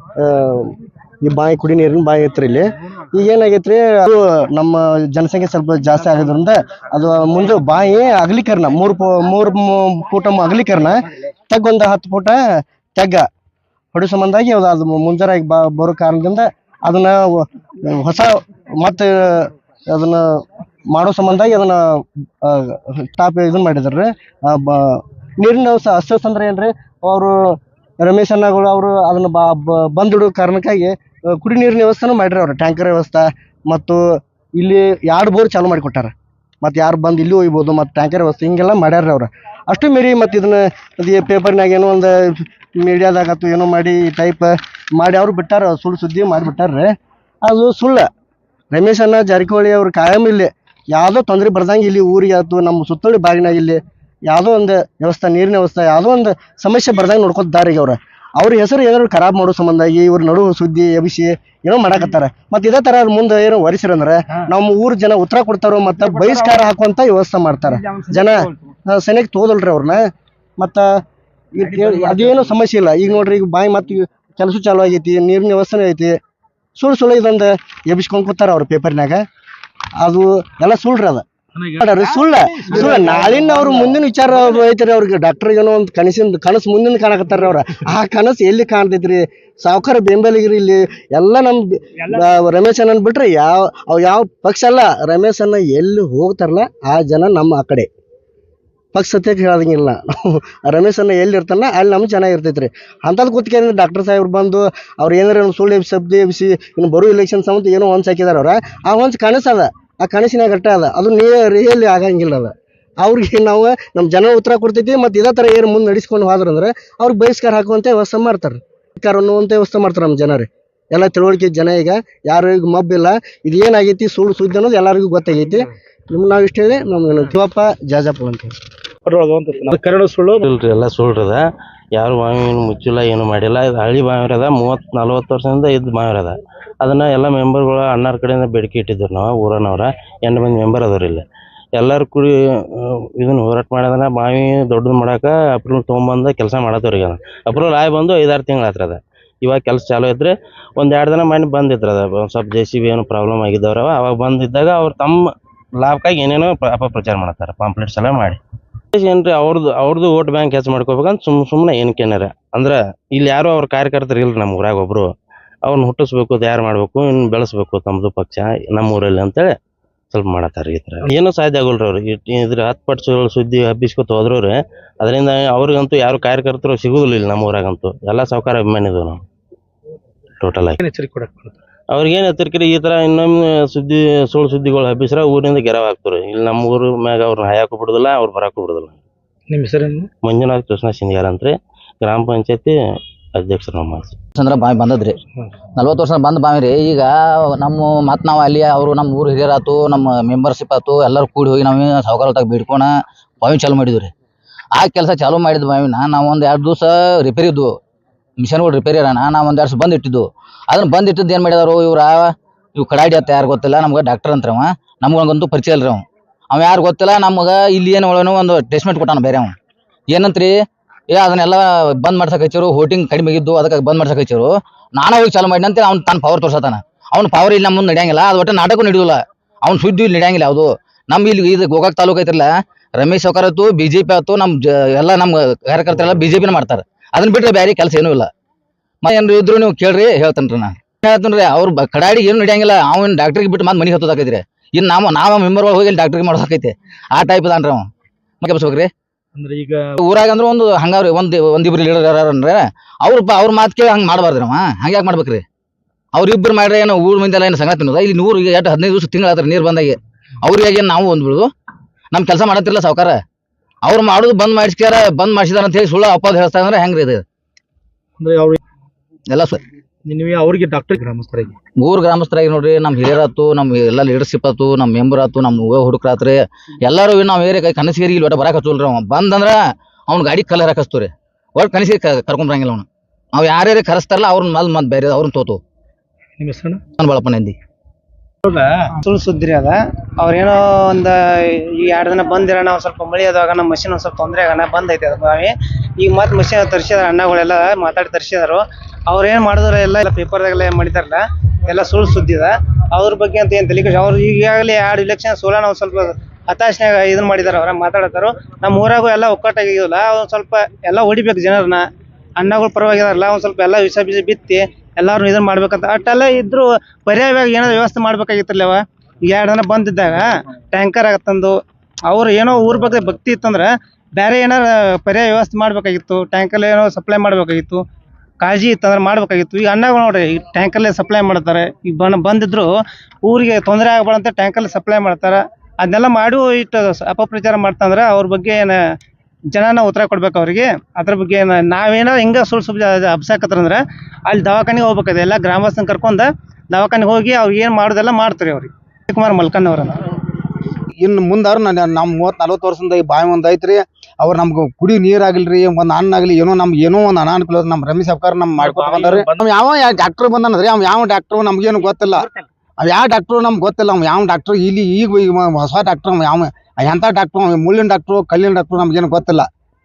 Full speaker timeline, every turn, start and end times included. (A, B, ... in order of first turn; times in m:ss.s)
0:00.2-0:00.7 A
0:01.2-0:12.4 A
0:12.9-0:13.2 A
0:13.9-0:34.0 A
0:34.6-0:48.1 A
0:48.7-1:10.0 A
1:10.6-1:10.9 A
1:11.5-1:16.2 A
1:16.8-1:19.2 A
1:20.0-1:37.9 A
1:38.9-2:08.5 A
2:09.0-2:10.4 B
2:10.4-2:11.4 C
2:12.0-2:35.2 C
2:35.8-2:38.4 C
2:38.9-2:45.1 C
2:45.6-2:49.5 C
2:50.1-2:59.2 C
3:00.4-3:00.9 C
3:00.8-3:01.5 B
3:01.9-3:09.0 C
3:09.5-3:10.1 B
3:10.2-3:12.7 C
3:13.3-3:14.2 C
3:14.4-3:15.2 D
3:15.8-3:22.9 D
3:23.4-3:24.1 D
3:24.7-3:27.7 D
3:28.4-3:39.5 D
3:40.1-3:40.5 D
3:41.1-3:58.3 D
3:59.0-4:07.8 D
4:08.4-4:08.9 D
4:09.4-4:09.9 B
4:10.0-4:15.4 D
4:16.1-4:21.5 D
4:22.1-4:23.2 D
4:23.8-4:27.2 D
4:28.2-4:28.6 B
4:29.3-4:29.6 D
4:30.1-4:31.6 B
4:31.8-4:45.6 D
4:46.4-4:46.8 B
4:47.0-4:47.6 D
4:48.4-4:48.7 B
4:49.0-5:11.8 E
5:12.4-5:21.6 E
5:22.1-5:27.8 E
5:28.4-5:32.7 E
5:33.2-5:38.8 E
5:39.5-5:50.0 E
5:51.0-6:02.2 F
6:02.8-6:09.5 F